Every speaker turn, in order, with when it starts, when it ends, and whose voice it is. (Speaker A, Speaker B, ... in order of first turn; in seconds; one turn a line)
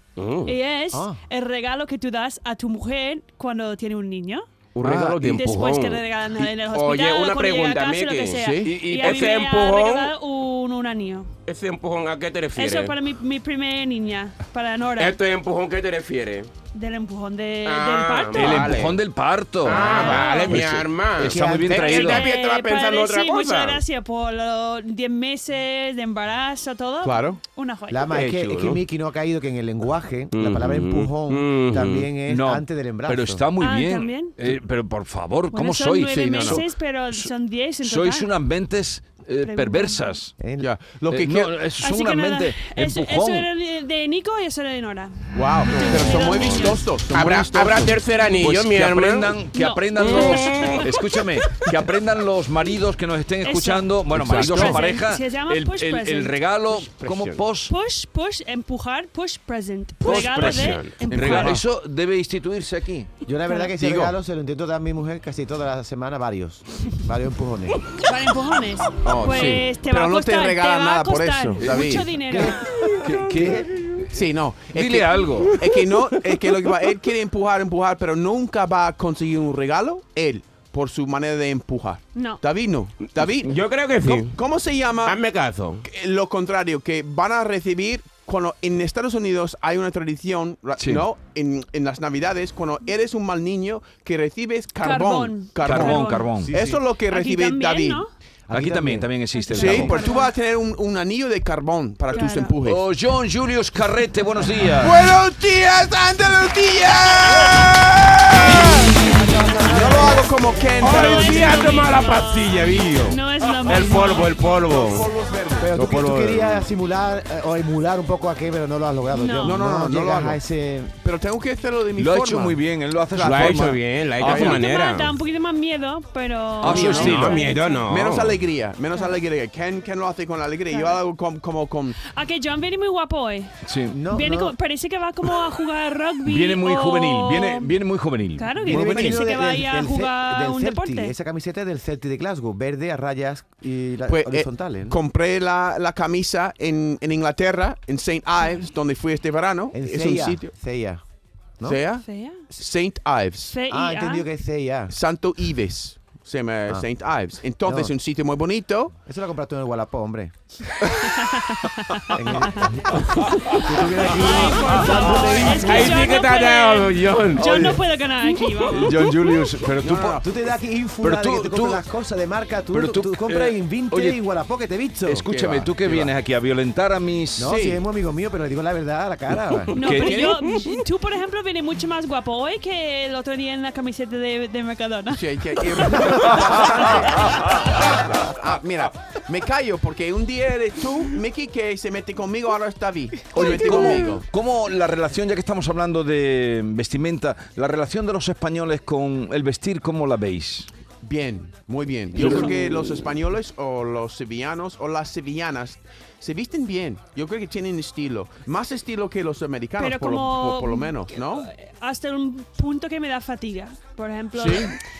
Speaker A: 0.1-0.5
Speaker B: 0.5-4.4
Speaker C: 0.9-1.2
Speaker A: 4.7-10.1
Speaker D: 4.8-5.2
Speaker B: 5.2-11.3
Speaker E: 8.4-8.8
Speaker D: 8.7-9.3
Speaker A: 11.4-12.9
Speaker B: 12.6-15.2
Speaker A: 15.0-16.5
Speaker B: 16.7-18.8
Speaker A: 17.6-19.0
Speaker D: 18.3-22.3
Speaker A: 19.6-23.8
Speaker B: 19.7-20.6
Speaker C: 21.2-21.9
Speaker B: 21.8-28.2
Speaker E: 27.0-27.4
Speaker C: 27.9-33.5
Speaker A: 28.1-28.8
Speaker A: 30.3-32.1
Speaker D: 32.3-40.4
Speaker B: 33.6-34.4
Speaker B: 35.5-38.3
Speaker E: 36.1-36.6
Speaker B: 39.4-40.2
Speaker C: 40.4-40.7
Speaker E: 40.6-41.5
Speaker D: 41.1-43.5
Speaker B: 41.8-46.8
Speaker E: 45.3-48.0
Speaker A: 45.9-49.3
Speaker D: 48.4-57.7
Speaker B: 49.5-50.8
Speaker A: 50.0-50.9
Speaker B: 53.4-56.4
Speaker E: 54.1-54.9
Speaker A: 56.8-57.4
Speaker B: 57.7-61.6
Speaker D: 60.0-63.1
Speaker A: 60.5-60.9
Speaker E: 61.1-61.6
Speaker C: 63.2-67.8
Speaker E: 63.8-64.1
Speaker B: 68.0-72.8
Speaker E: 69.0-72.1
Speaker D: 71.6-74.1
Speaker C: 72.3-73.7
Speaker E: 74.1-85.2
Speaker D: 74.7-75.6
Speaker B: 82.1-82.4
Speaker A: 83.3-84.4
Speaker A: 85.0-85.8
Speaker E: 85.8-98.0
Speaker D: 90.8-91.1
Speaker B: 94.8-98.1
Speaker D: 95.6-96.6
Speaker C: 96.5-96.8
Speaker C: 98.5-99.8
Speaker D: 98.5-100.0
Speaker B: 99.3-100.3
Speaker E: 99.5-102.8
Speaker B: 102.1-102.5
Speaker D: 102.6-105.0
Speaker E: 104.8-108.9
Speaker C: 108.8-110.2
Speaker E: 109.6-111.9
Speaker B: 110.8-112.3
Speaker A: 110.8-115.1
Speaker B: 113.1-114.3
Speaker E: 115.2-115.6
Speaker C: 115.6-120.9
Speaker A: 115.7-116.7
Speaker B: 119.1-119.6
Speaker E: 119.4-120.4
Speaker E: 121.0-124.6
Speaker D: 122.0-124.6
Speaker A: 123.2-125.2
Speaker B: 124.2-127.9
Speaker D: 126.6-127.4
Speaker E: 126.6-132.0
Speaker A: 126.9-128.4
Speaker B: 130.7-131.0
Speaker B: 132.0-133.5
Speaker D: 133.6-133.9
Speaker C: 133.9-134.6
Speaker B: 134.1-137.7
Speaker D: 136.2-139.3
Speaker B: 138.3-141.1
Speaker C: 138.7-145.0
Speaker E: 144.1-150.5
Speaker C: 149.7-151.0
Speaker E: 151.6-153.6
Speaker B: 152.1-152.4
Speaker B: 153.5-154.3
Speaker C: 153.7-154.9
Speaker E: 154.9-158.9
Speaker C: 157.6-157.9
Speaker C: 159.0-160.3
Speaker B: 161.1-162.7
Speaker C: 162.1-166.1
Speaker B: 163.3-169.1
Speaker A: 165.6-167.8
Speaker D: 168.7-170.2
Speaker E: 169.8-170.2
Speaker C: 170.2-175.3
Speaker D: 171.0-171.8
Speaker D: 172.7-174.2
Speaker E: 175.1-176.1
Speaker D: 175.1-177.6
Speaker C: 177.3-179.8
Speaker E: 177.4-177.8
Speaker D: 179.7-180.4
Speaker B: 179.7-185.2
Speaker E: 185.1-194.2
Speaker B: 193.3-194.2
Speaker D: 193.3-200.7
Speaker E: 201.0-211.5
Speaker D: 202.1-202.6
Speaker B: 202.2-202.5
Speaker B: 209.8-210.9
Speaker B: 211.6-214.7
Speaker E: 214.3-214.7